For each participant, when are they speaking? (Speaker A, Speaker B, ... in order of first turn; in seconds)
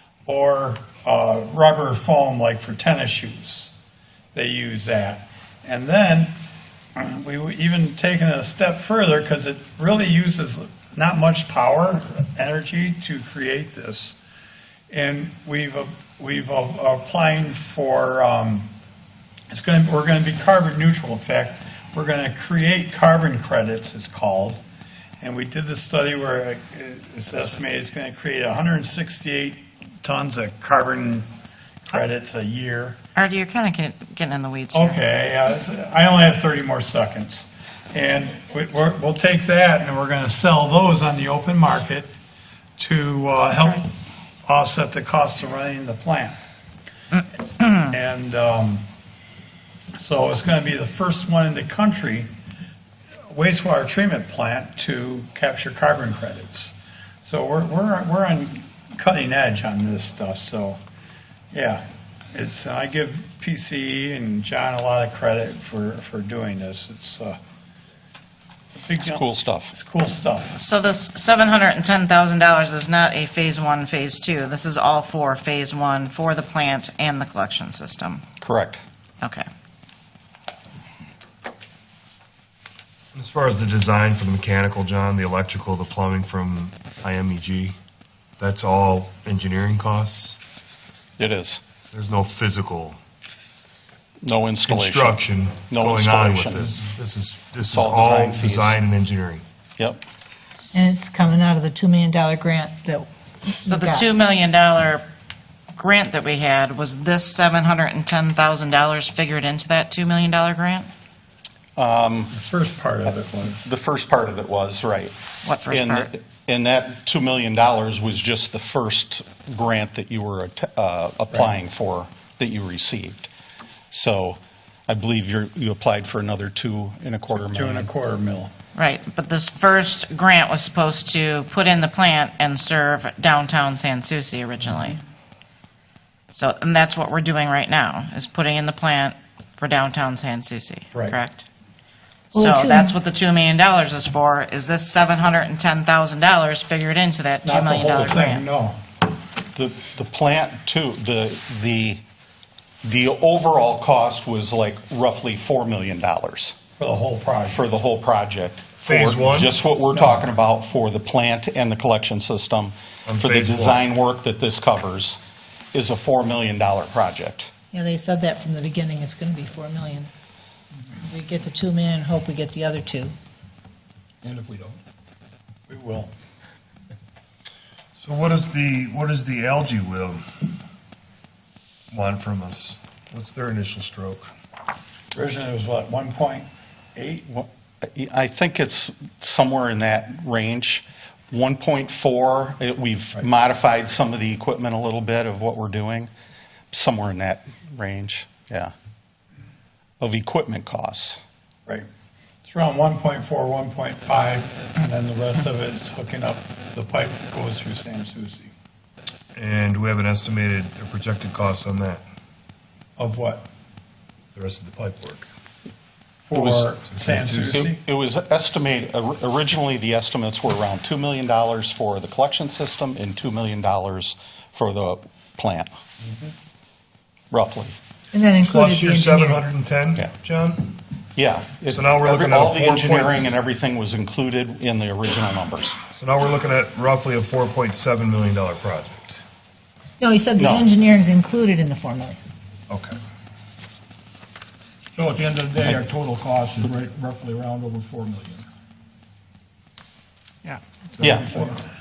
Speaker A: 0.2-3.7, 4.3-6.3, 7.0-14.2, 14.9-18.7, 19.5-24.6, 25.2-31.3, 31.9-33.0, 34.7-42.1, 42.8-43.9, 44.5-46.4, 47.9-48.8, 49.9-52.3, 53.3-60.8, 61.5-67.4, 68.7-70.6, 112.3-113.7, 127.3-128.5, 140.9-141.2, 147.4-148.8, 156.8-157.6, 175.7-176.1, 185.1-187.2, 202.4-208.5, 213.0-213.4, 216.3-217.8
Speaker B: 33.1-35.0, 70.6-78.2, 79.2-79.5, 103.6-105.0, 105.8-110.9, 115.4-116.1, 128.7-135.0, 136.3-141.4, 142.3-148.4
Speaker C: 69.0-69.7, 78.4-78.8, 91.2-91.6, 94.2-96.8, 97.7-98.8, 99.8-100.0, 111.8-112.3, 113.1-123.3, 123.9-127.9, 149.5-152.0, 152.8-156.6, 157.5-165.2, 165.7-167.5, 187.3-196.1, 196.7-198.7, 200.0-201.2, 216.3-216.7, 217.4-225.7, 227.3-227.7, 231.2-235.8, 240.4-240.7, 251.0-251.3
Speaker D: 83.1-87.7, 88.4-90.4, 91.9-93.0, 94.7-99.4, 158.8-159.5, 163.1-163.8, 177.9-180.2, 181.9-184.3, 209.3-212.0, 214.3-215.2, 216.9-217.4, 228.4-230.7, 231.7-233.3, 235.9-239.2, 242.7-243.0
Speaker E: 100.7-104.1, 142.3-142.9, 167.7-170.1, 171.1-173.1, 228.1-229.4, 240.0-242.2
Speaker F: 174.2-174.8, 245.0-248.4, 251.0-251.5